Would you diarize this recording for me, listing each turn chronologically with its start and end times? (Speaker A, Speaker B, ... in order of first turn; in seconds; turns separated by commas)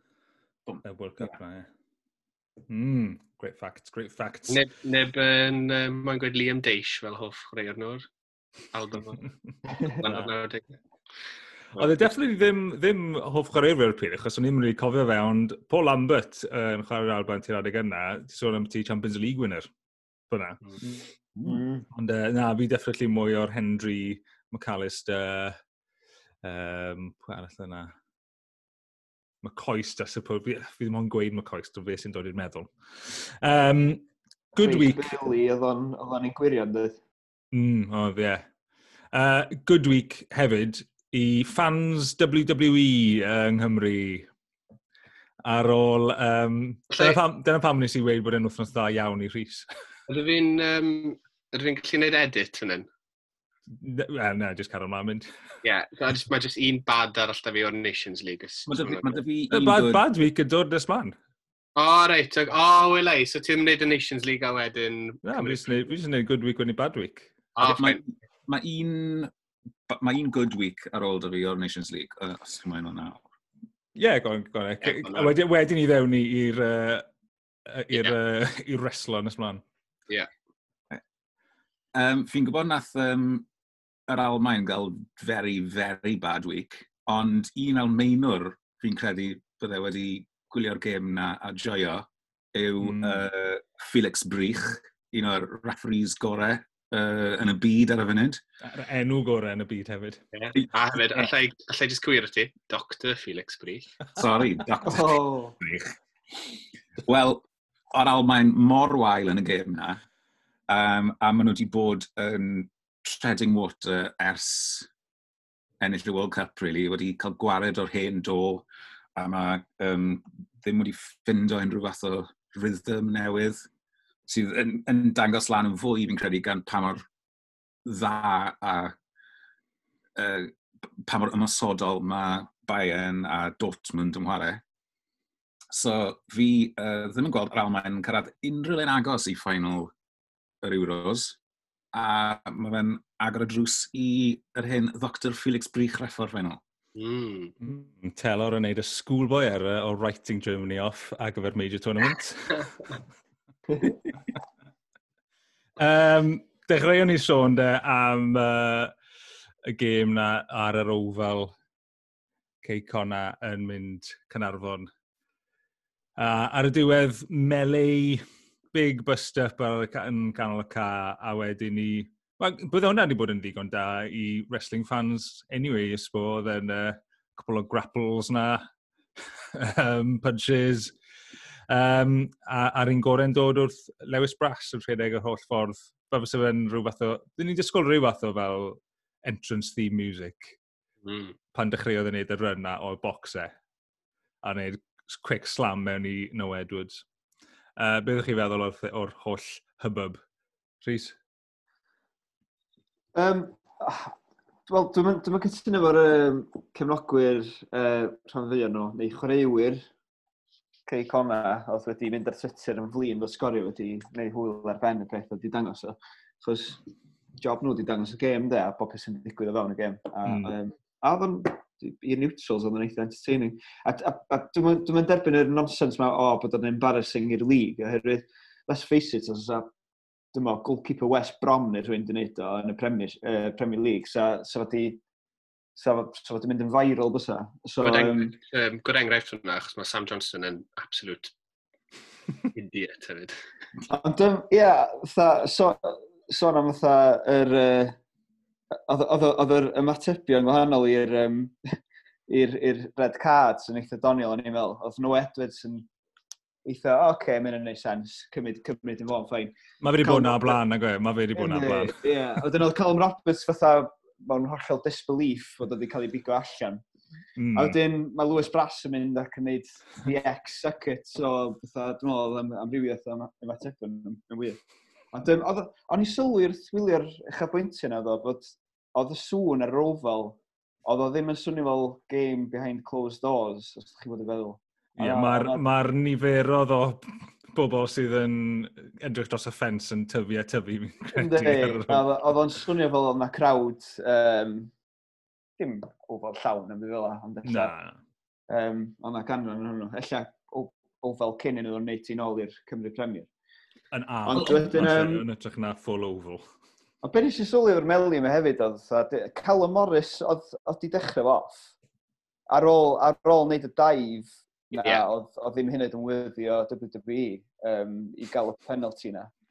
Speaker A: 0.7-1.4, Speaker B: 0.8-1.7, Speaker B: 2.7-4.6, Speaker C: 4.5-8.1, Speaker C: 8.7-10.7, Speaker B: 10.0-10.3, Speaker C: 11.8-12.1, Speaker B: 11.8-19.7, Speaker B: 20.3-20.9, Speaker D: 21.4-21.9, Speaker B: 21.5-25.6, Speaker B: 26.4-27.9, Speaker B: 29.4-35.1, Speaker D: 34.6-37.0, Speaker B: 37.5-38.5, Speaker B: 39.1-44.3, Speaker B: 45.5-49.7, Speaker C: 46.9-47.2, Speaker C: 50.1-52.9, Speaker B: 53.8-55.3, Speaker C: 55.6-59.2, Speaker A: 58.7-60.1, Speaker B: 59.5-61.2, Speaker C: 61.8-65.7, Speaker B: 65.2-67.4, Speaker C: 67.6-68.0, Speaker A: 67.6-69.3, Speaker A: 69.9-73.3, Speaker B: 74.0-77.1, Speaker C: 74.8-75.3, Speaker B: 77.7-79.6, Speaker C: 77.9-78.2, Speaker A: 82.0-83.5, Speaker A: 84.1-98.4, Speaker B: 92.8-93.2, Speaker B: 98.6-100.2, Speaker C: 100.3-103.9, Speaker A: 100.5-101.3, Speaker A: 104.2-105.9, Speaker D: 104.8-105.6, Speaker A: 107.0-110.0, Speaker A: 110.7-114.9, Speaker A: 115.8-118.7, Speaker A: 119.2-123.7, Speaker A: 124.3-127.0, Speaker A: 127.8-128.9, Speaker A: 130.2-134.6, Speaker A: 135.7-139.9, Speaker A: 140.6-141.4, Speaker A: 141.9-146.6, Speaker C: 147.0-147.6, Speaker B: 147.6-153.0, Speaker B: 155.8-158.9, Speaker B: 159.7-161.6, Speaker B: 162.6-164.9, Speaker B: 166.2-178.7, Speaker B: 179.5-181.0, Speaker B: 181.7-190.6, Speaker C: 191.0-191.4, Speaker B: 191.5-193.6, Speaker B: 194.4-197.0, Speaker B: 197.8-200.2, Speaker B: 200.8-201.2, Speaker D: 203.2-204.2, Speaker D: 204.7-209.8, Speaker D: 210.9-216.8, Speaker D: 217.4-229.7, Speaker B: 220.3-220.5, Speaker D: 230.3-235.0, Speaker D: 235.8-238.3, Speaker C: 237.8-241.3, Speaker C: 242.5-243.4, Speaker D: 243.9-248.0, Speaker D: 248.9-251.6, Speaker D: 252.3-255.9, Speaker D: 256.6-260.6, Speaker B: 259.8-262.0, Speaker D: 261.3-266.8, Speaker B: 267.4-267.8, Speaker D: 267.5-274.6, Speaker D: 275.1-285.6, Speaker B: 285.0-292.1, Speaker D: 291.1-294.7, Speaker D: 295.6-297.7, Speaker B: 297.4-298.0, Speaker D: 298.5-303.3, Speaker B: 303.9-306.4, Speaker D: 304.3-305.3, Speaker D: 307.0-311.7, Speaker D: 312.5-319.3, Speaker C: 314.8-315.0